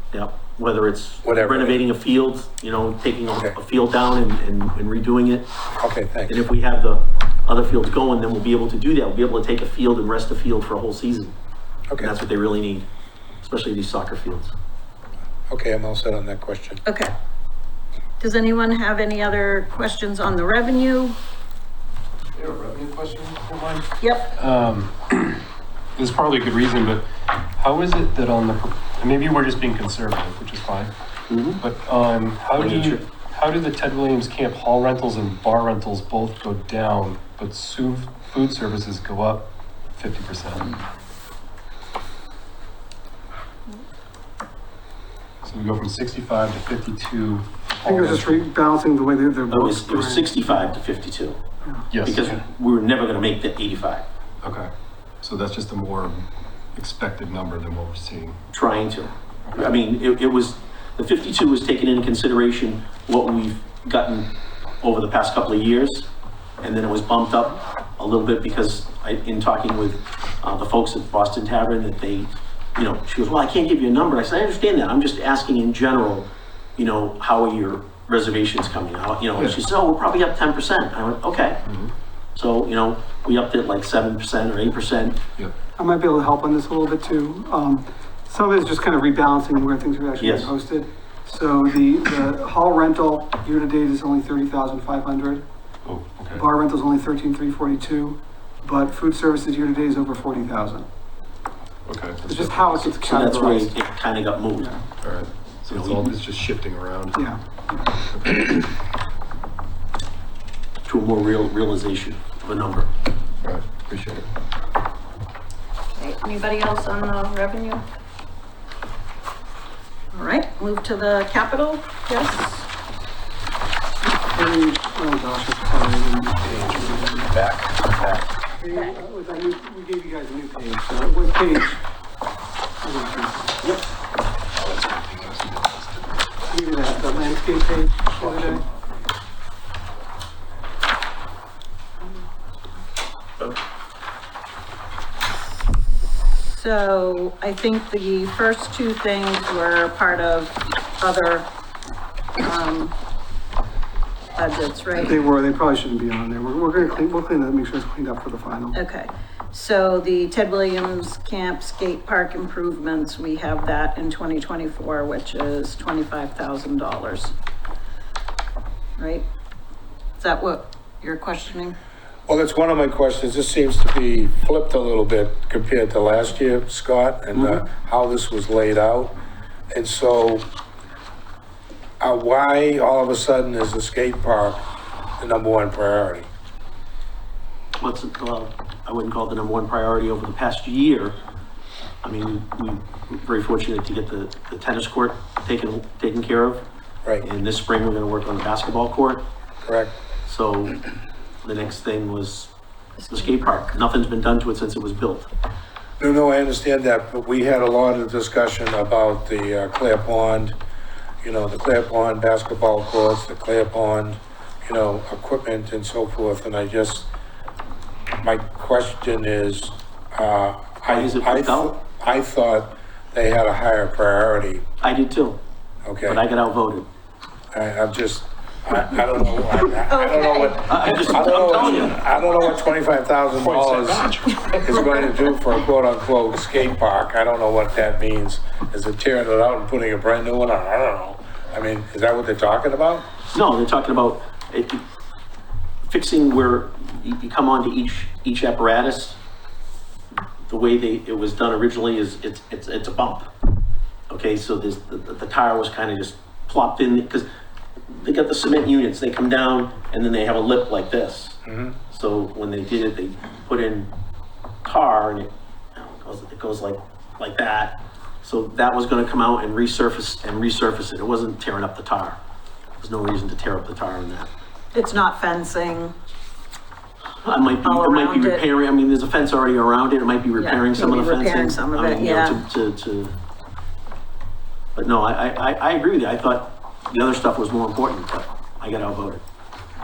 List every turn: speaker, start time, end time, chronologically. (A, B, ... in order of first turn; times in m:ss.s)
0:00.1-0:05.5 A
0:01.2-0:01.8 B
0:05.8-0:06.4 B
0:06.3-0:11.3 A
0:12.0-0:12.9 A
0:13.4-0:14.5 A
0:15.5-0:16.8 B
0:16.8-0:17.1 C
0:18.2-0:21.2 C
0:22.3-0:25.4 D
0:24.0-0:24.3 C
0:26.0-0:30.9 D
0:31.3-0:31.6 A
0:31.6-0:40.8 D
0:32.6-0:33.0 A
0:45.4-0:48.4 D
0:47.8-0:50.6 E
0:49.5-0:51.4 A
0:51.9-0:52.3 D
0:52.0-0:54.0 A
0:54.4-0:54.7 D
0:55.2-0:58.4 D
0:58.5-1:06.1 A
1:06.6-1:21.6 A
1:21.7-1:21.9 D
1:22.4-1:25.2 A
1:25.8-1:35.4 E
1:30.2-1:30.5 A
1:35.8-1:36.5 D
1:36.3-1:40.9 E
1:41.9-1:42.9 D
1:42.2-1:43.7 E
1:43.0-1:44.7 A
1:44.6-1:44.8 E
1:45.0-1:47.2 D
1:45.7-1:46.1 A
1:47.2-1:48.0 E
1:48.1-1:48.6 D
1:50.9-1:52.9 A
1:53.4-1:54.3 D
1:56.0-1:57.8 C
2:00.1-2:02.7 C
2:04.3-2:07.3 E
2:07.2-2:08.2 A
2:08.6-2:11.8 E
2:12.8-2:13.6 E
2:14.8-2:15.1 D
2:16.5-2:18.6 E
2:26.4-2:31.5 C
2:32.4-2:32.9 C
2:34.4-2:35.2 C
2:35.0-2:38.8 E
2:38.7-2:47.3 C
2:49.0-2:49.3 C
2:50.2-2:51.8 C
2:52.3-2:59.2 B
2:59.7-3:00.5 B
3:02.0-3:04.6 B
3:05.2-3:06.3 B
3:07.8-3:11.2 A
3:12.0-3:16.6 A
3:17.2-3:19.2 A
3:19.6-3:20.0 B
3:20.3-3:20.8 A
3:21.4-3:22.5 A
3:23.0-3:23.5 C
3:23.1-3:25.3 A
3:26.0-3:30.6 B
3:31.2-3:37.1 B
3:38.2-3:44.6 B
3:40.9-3:41.8 A
3:44.8-3:45.4 A
3:45.9-3:46.2 B
3:46.1-3:46.9 A
3:47.5-4:03.1 B
3:49.9-3:51.2 C
3:50.6-3:52.0 A
3:53.5-3:54.5 D
4:03.3-4:04.8 A
4:05.9-4:09.2 A
4:10.5-4:13.3 A
4:14.1-4:17.3 A
4:17.9-4:21.4 A
4:21.4-4:21.8 B
4:21.9-4:23.9 A
4:24.6-4:32.2 A
4:32.8-4:34.3 A
4:34.7-4:35.9 C
4:37.2-4:43.2 A
4:37.6-4:38.4 C
4:40.4-4:42.4 C
4:44.8-4:49.2 A